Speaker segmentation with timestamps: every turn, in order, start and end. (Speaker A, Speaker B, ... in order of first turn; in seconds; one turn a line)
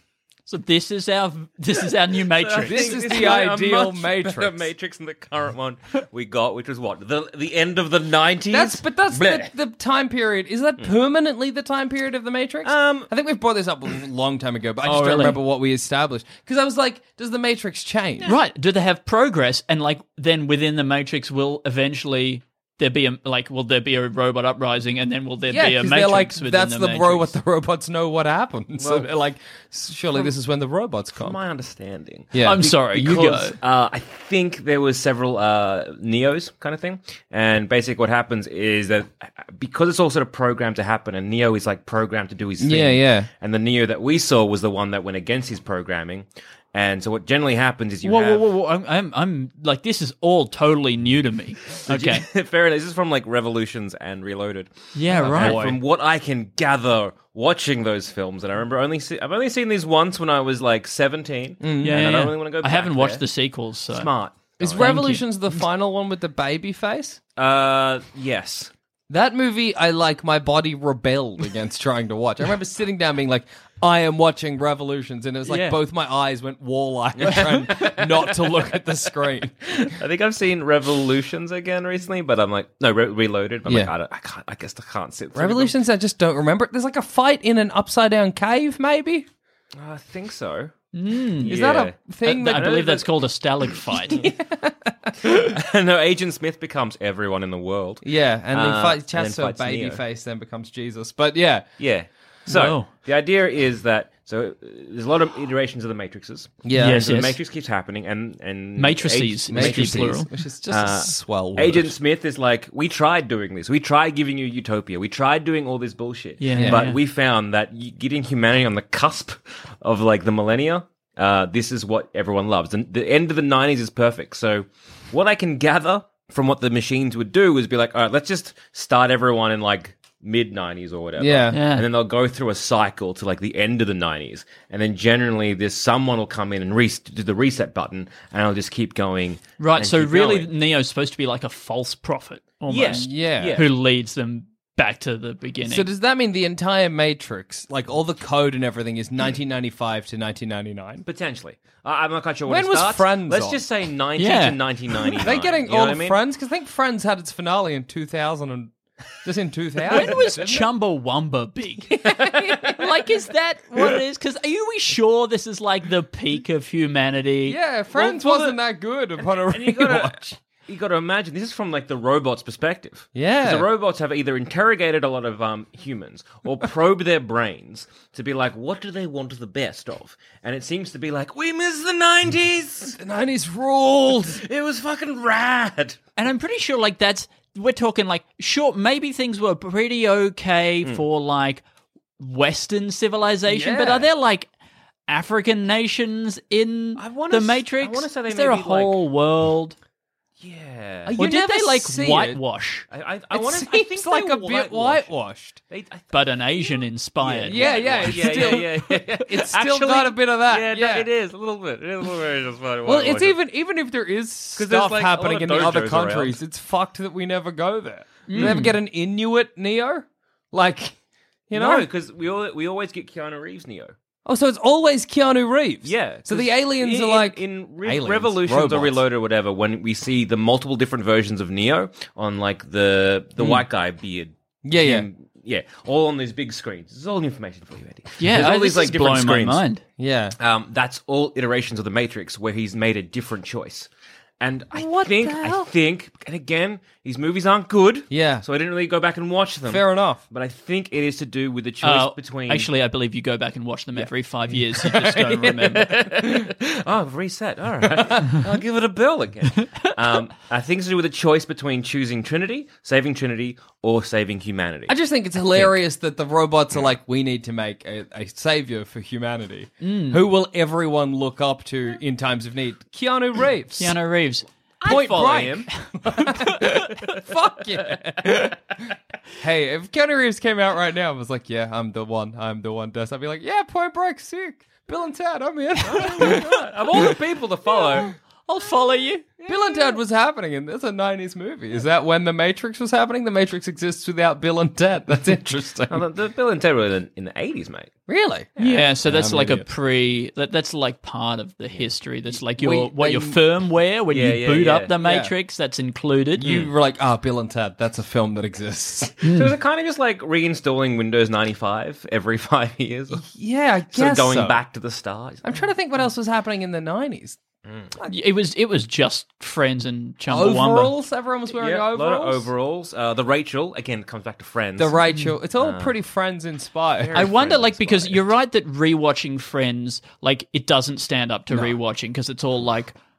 Speaker A: 0.5-2.9
Speaker B: 2.3-9.5
Speaker C: 2.6-4.7
Speaker C: 8.5-18.3
Speaker B: 12.6-13.1
Speaker A: 14.8-15.4
Speaker A: 18.2-27.3
Speaker C: 25.5-31.4
Speaker B: 28.8-29.1
Speaker B: 31.1-48.4
Speaker C: 32.3-33.4
Speaker A: 32.4-33.6
Speaker C: 42.6-43.3
Speaker A: 48.0-52.2
Speaker B: 51.8-54.7
Speaker A: 54.9-55.6
Speaker C: 55.1-55.8
Speaker B: 55.2-63.2
Speaker C: 61.6-62.0
Speaker A: 61.8-64.1
Speaker B: 63.9-64.9
Speaker C: 64.6-67.2
Speaker A: 64.8-65.3
Speaker B: 67.3-68.7
Speaker C: 69.1-79.9
Speaker A: 75.5-75.8
Speaker B: 77.2-78.6
Speaker B: 79.8-85.7
Speaker C: 83.7-83.9
Speaker C: 85.3-89.3
Speaker B: 89.7-90.7
Speaker A: 90.9-91.5
Speaker C: 91.4-93.0
Speaker B: 91.5-93.1
Speaker A: 92.2-94.2
Speaker C: 94.2-95.4
Speaker B: 95.3-100.0
Speaker C: 98.0-101.6
Speaker B: 101.8-140.5
Speaker A: 102.5-102.9
Speaker C: 106.6-107.2
Speaker A: 106.8-107.3
Speaker A: 108.8-110.3
Speaker C: 109.5-111.9
Speaker A: 116.4-117.0
Speaker C: 116.5-116.8
Speaker C: 131.2-131.6
Speaker A: 131.5-131.8
Speaker A: 139.6-145.9
Speaker B: 142.7-143.7
Speaker C: 142.9-143.6
Speaker C: 145.6-151.0
Speaker B: 151.1-156.2
Speaker C: 152.5-153.6
Speaker A: 154.2-155.1
Speaker C: 155.2-160.7
Speaker A: 159.9-162.1
Speaker C: 161.9-162.8
Speaker A: 162.6-167.6
Speaker C: 167.4-170.3
Speaker B: 167.9-168.6
Speaker B: 169.2-183.0
Speaker C: 173.1-173.7
Speaker C: 183.0-184.4
Speaker B: 184.3-186.0
Speaker A: 186.2-191.6
Speaker A: 192.2-194.5
Speaker C: 193.5-194.1
Speaker A: 195.1-199.8
Speaker B: 197.0-199.0
Speaker B: 200.4-201.2
Speaker C: 201.1-202.4
Speaker A: 201.2-202.9
Speaker B: 202.9-205.1
Speaker C: 203.3-205.6
Speaker B: 205.7-213.4
Speaker A: 206.1-208.6
Speaker C: 207.4-211.1
Speaker C: 212.8-220.9
Speaker B: 214.6-216.4
Speaker A: 218.3-218.8
Speaker C: 221.5-221.9
Speaker B: 221.5-223.9
Speaker C: 224.2-229.0
Speaker B: 225.8-239.6
Speaker C: 233.4-233.6
Speaker C: 234.6-235.1
Speaker A: 238.2-239.8
Speaker C: 240.0-240.3
Speaker B: 240.4-243.9
Speaker B: 244.4-252.7
Speaker C: 244.7-245.7
Speaker C: 248.1-248.4
Speaker C: 249.7-250.2
Speaker A: 251.8-255.8
Speaker C: 254.5-256.6
Speaker B: 255.7-264.9
Speaker C: 257.8-258.4
Speaker C: 264.9-274.0
Speaker A: 269.8-270.2
Speaker A: 273.8-276.9
Speaker C: 274.8-278.6
Speaker B: 274.9-275.6
Speaker C: 279.4-287.1
Speaker B: 285.8-288.1
Speaker C: 287.8-288.1
Speaker A: 288.5-289.3
Speaker C: 289.4-296.0
Speaker B: 295.9-297.9
Speaker C: 298.1-299.6
Speaker B: 298.6-298.9
Speaker A: 298.6-306.5
Speaker C: 302.6-303.4
Speaker B: 304.1-304.9
Speaker C: 305.0-305.3
Speaker C: 306.4-309.2
Speaker B: 306.4-306.7
Speaker A: 309.2-309.5
Speaker B: 309.3-313.3
Speaker C: 313.1-314.6
Speaker B: 313.9-315.5
Speaker C: 315.4-317.4
Speaker B: 317.6-317.9
Speaker A: 318.1-320.9
Speaker C: 320.3-322.5
Speaker B: 321.6-325.0
Speaker C: 324.8-327.2
Speaker A: 325.1-325.4
Speaker B: 325.6-325.9
Speaker B: 327.0-328.3
Speaker A: 327.1-332.9
Speaker C: 331.5-331.8